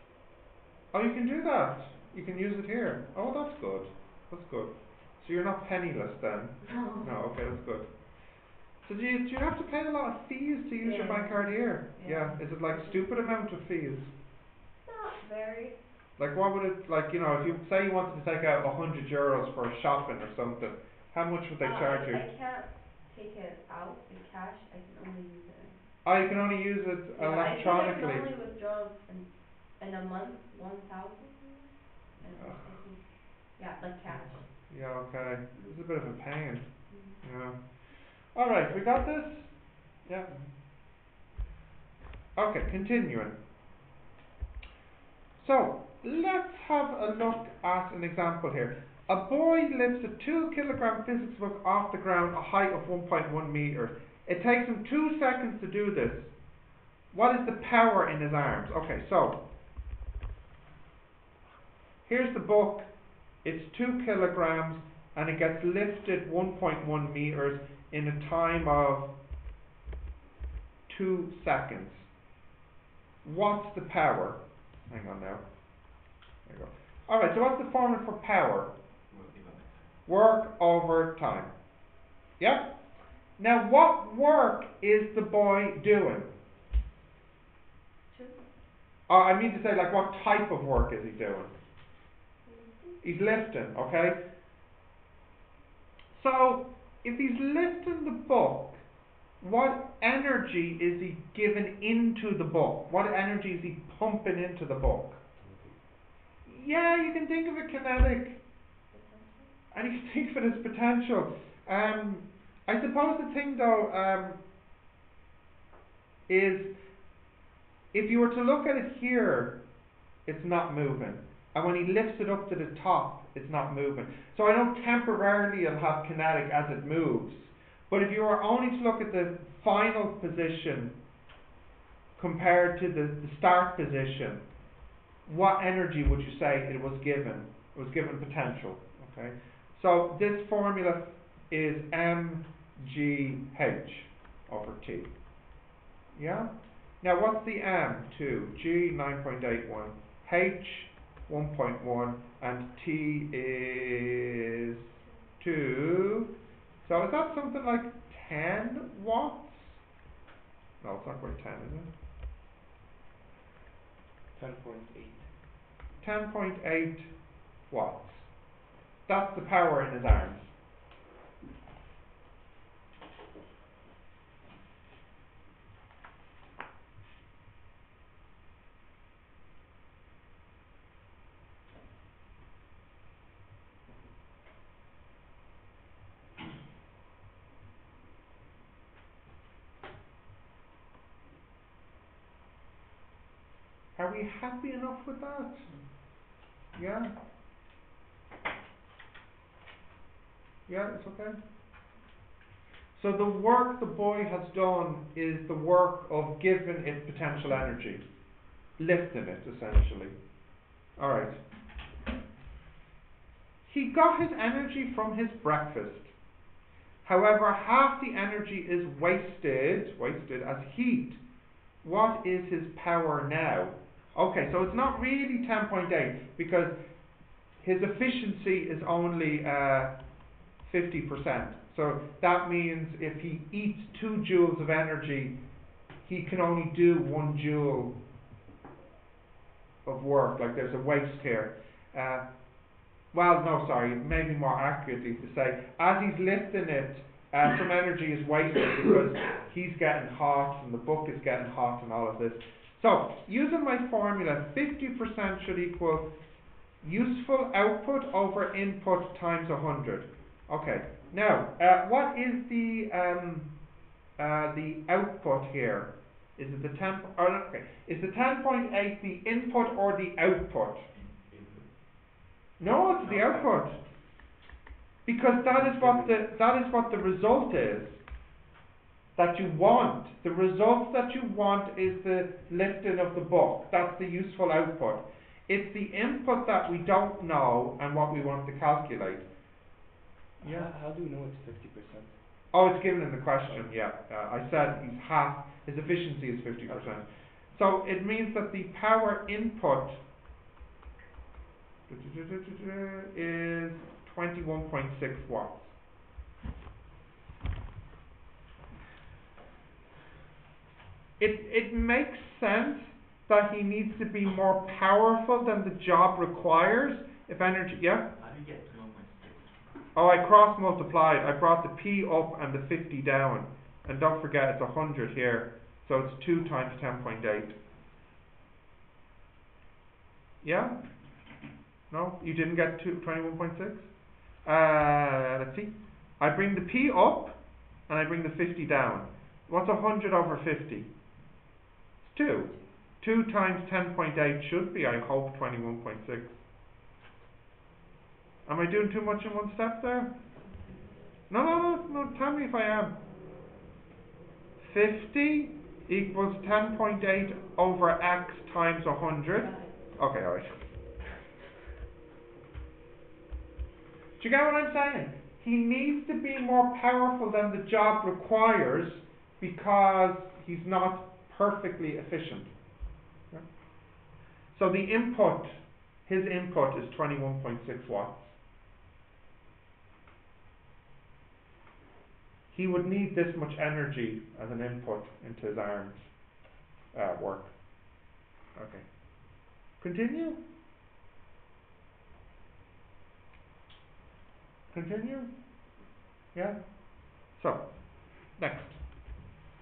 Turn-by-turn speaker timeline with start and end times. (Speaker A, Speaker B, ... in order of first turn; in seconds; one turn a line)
Speaker A: 0.9-7.9
Speaker B: 6.6-7.1
Speaker A: 8.8-14.1
Speaker B: 10.8-13.0
Speaker B: 14.8-15.8
Speaker A: 16.2-22.2
Speaker B: 21.6-25.8
Speaker A: 26.1-28.3
Speaker B: 27.2-33.0
Speaker A: 32.4-32.6
Speaker B: 33.5-34.4
Speaker A: 34.7-36.7
Speaker B: 36.9-37.2
Speaker A: 37.2-37.6
Speaker A: 38.3-39.5
Speaker A: 42.4-43.4
Speaker A: 45.4-56.3
Speaker A: 57.1-59.4
Speaker A: 62.1-62.9
Speaker A: 63.4-69.1
Speaker A: 70.9-72.1
Speaker A: 73.2-75.4
Speaker A: 76.5-78.7
Speaker C: 79.1-80.0
Speaker A: 80.1-81.5
Speaker A: 82.4-82.7
Speaker A: 83.4-86.3
Speaker B: 88.1-88.4
Speaker A: 89.1-91.5
Speaker B: 92.5-93.0
Speaker A: 93.0-94.2
Speaker A: 96.1-98.8
Speaker A: 99.4-105.2
Speaker C: 105.4-105.8
Speaker A: 106.5-108.4
Speaker B: 108.9-109.5
Speaker A: 109.7-114.4
Speaker A: 116.3-116.7
Speaker A: 117.9-119.6
Speaker A: 120.3-130.9
Speaker A: 132.2-134.4
Speaker A: 135.3-145.1
Speaker A: 146.2-156.3
Speaker A: 156.8-159.8
Speaker A: 160.8-161.9
Speaker D: 164.3-165.3
Speaker A: 166.0-167.1
Speaker A: 167.7-168.3
Speaker A: 169.1-170.5
Speaker A: 194.0-195.7
Speaker A: 196.7-197.1
Speaker A: 200.7-201.4
Speaker A: 202.9-208.0
Speaker A: 208.8-210.1
Speaker A: 211.0-211.4
Speaker A: 213.7-216.1
Speaker A: 217.0-221.2
Speaker A: 221.8-226.7
Speaker A: 227.6-229.9
Speaker A: 230.6-235.4
Speaker A: 236.0-237.9
Speaker A: 239.8-242.2
Speaker A: 243.1-256.1
Speaker A: 256.8-263.5
Speaker A: 264.2-270.9
Speaker C: 270.9-271.7
Speaker A: 272.6-273.8
Speaker C: 273.0-273.5
Speaker A: 275.1-278.0
Speaker D: 275.5-276.2
Speaker A: 279.1-289.3
Speaker A: 290.4-290.7
Speaker D: 290.4-292.2
Speaker A: 292.5-300.0
Speaker A: 301.9-305.7
Speaker A: 311.2-318.1
Speaker C: 318.1-319.6
Speaker A: 319.9-327.6
Speaker A: 330.4-330.8
Speaker A: 331.9-333.9
Speaker A: 334.4-337.4
Speaker A: 337.9-340.9
Speaker A: 342.0-346.4
Speaker A: 348.5-350.1
Speaker B: 350.4-350.9
Speaker A: 351.3-352.9
Speaker A: 354.6-360.6
Speaker B: 359.4-359.8
Speaker A: 364.2-372.5
Speaker A: 374.5-378.4
Speaker A: 382.5-386.1
Speaker A: 386.9-387.5
Speaker A: 388.6-390.4
Speaker A: 394.7-395.3
Speaker A: 396.3-397.7
Speaker A: 398.3-398.8